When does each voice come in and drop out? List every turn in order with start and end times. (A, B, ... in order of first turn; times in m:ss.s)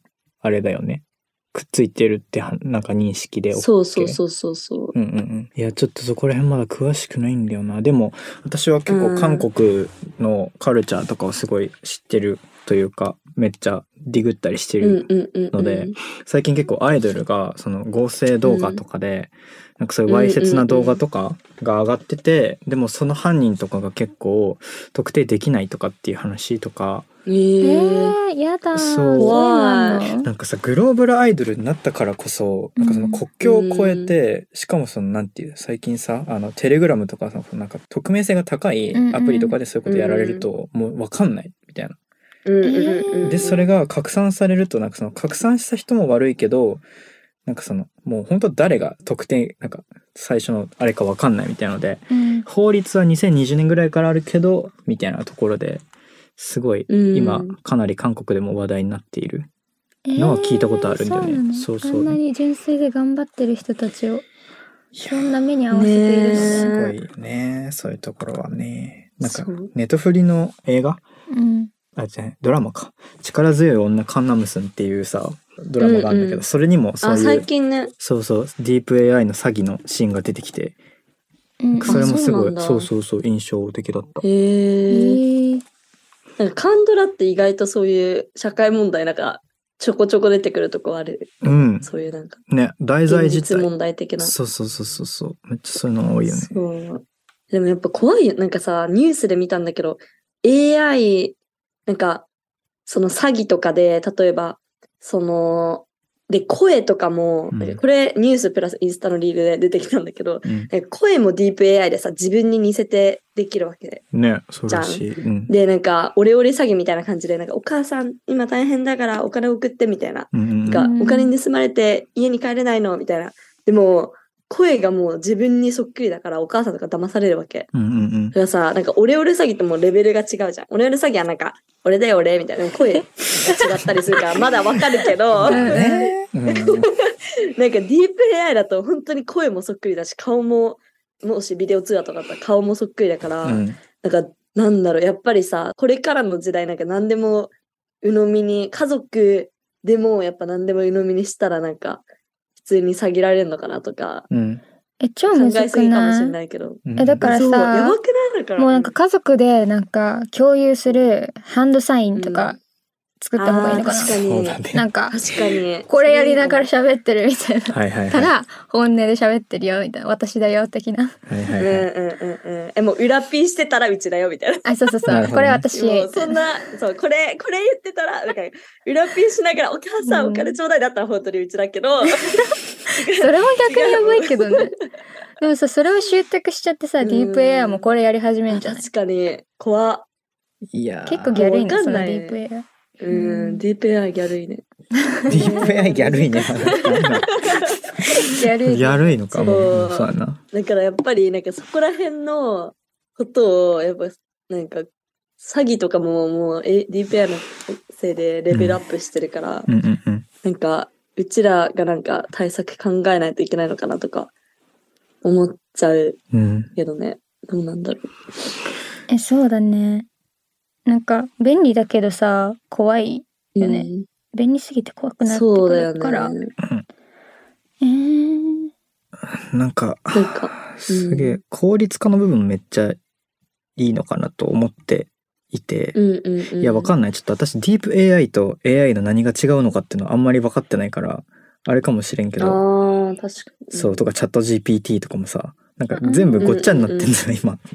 0:00.4-0:04.2 A
0:03.5-0:05.0 B
0:05.0-0:27.1 A
0:08.9-0:09.5 B
0:14.8-0:16.0 B
0:18.4-0:18.8 B
0:20.1-0:21.0 B
0:27.3-0:28.2 B
0:27.6-0:30.3 C
0:28.8-0:29.4 A
0:29.2-0:30.0 B
0:30.2-0:42.0 A
0:32.8-0:33.2 C
0:33.4-0:34.1 B
0:38.9-0:39.6 C
0:39.9-0:40.5 B
0:42.5-0:43.7 B
0:42.6-0:43.5 C
0:43.2-0:46.8 A
0:47.4-0:55.8 A
0:52.1-0:52.5 C
0:56.4-0:59.5 A
0:56.9-0:57.6 B
1:00.1-1:04.2 C
1:00.2-1:02.2 A
1:05.0-1:05.3 A
1:05.0-1:06.8 C
1:05.7-1:07.0 B
1:06.3-1:11.0 A
1:09.2-1:09.7 B
1:11.3-1:11.7 C
1:12.0-1:17.5 A
1:15.8-1:16.4 B
1:17.0-1:17.9 B
1:18.0-1:20.8 A
1:21.6-1:22.5 C
1:21.7-1:24.2 A
1:21.9-1:22.9 B
1:24.2-1:25.2 B
1:24.9-1:25.6 C
1:26.4-1:32.4 B
1:31.4-1:31.9 A
1:32.5-1:36.6 A
1:33.1-1:34.3 B
1:36.2-1:41.4 B
1:41.9-1:42.3 B
1:42.8-1:54.0 B
1:47.5-1:47.8 A
1:50.4-1:50.7 A
1:54.1-1:55.5 A
1:54.7-2:07.7 B
2:00.3-2:00.9 A
2:00.8-2:01.3 C
2:07.7-2:08.4 A
2:08.3-2:27.5 B
2:15.4-2:16.9 A
2:15.5-2:15.9 C
2:23.4-2:23.8 A
2:28.0-2:32.0 B
2:32.6-2:34.3 B
2:34.3-2:34.6 A
2:35.0-2:36.4 C
2:35.3-2:38.9 B
2:36.9-2:37.4 A
2:37.0-2:38.0 C
2:38.6-2:42.6 C
2:42.1-2:42.6 B
2:43.2-2:44.2 C
2:43.4-2:46.7 B
2:44.2-2:44.9 A
2:44.7-2:45.3 C
2:45.9-2:51.6 C
2:47.7-2:48.3 A
2:51.3-2:51.9 A
2:51.6-2:55.2 B
2:54.6-2:56.4 C
2:55.1-2:55.6 A
2:55.7-3:04.7 B
3:00.0-3:00.6 C
3:03.2-3:04.7 C
3:05.4-3:08.8 C
3:07.0-3:07.9 B
3:08.5-3:10.1 B
3:10.7-3:11.4 A
3:11.1-3:13.6 C
3:11.4-3:12.4 B
3:13.0-3:14.6 B
3:15.1-3:15.4 C
3:15.3-3:17.3 A
3:15.3-3:18.1 B
3:18.3-3:19.5 C
3:18.6-3:20.4 A
3:19.4-3:24.9 B
3:25.4-3:29.7 B
3:28.5-3:28.8 A
3:29.7-3:30.3 A
3:30.4-3:34.3 B
3:35.2-3:36.2 B
3:36.3-3:36.7 A
3:36.8-3:38.1 B
3:39.1-3:40.1 C
3:40.9-3:46.4 C
3:43.6-3:44.1 B
3:45.2-3:46.5 B
3:46.6-3:46.8 A
3:47.8-3:48.7 C
3:49.2-3:53.0 A
3:50.1-3:51.4 B
3:53.8-3:56.0 A
3:56.0-3:57.0 B
3:56.6-4:02.6 A
4:02.4-4:04.0 B
4:03.7-4:07.6 A
4:06.0-4:06.5 C
4:06.4-4:07.1 B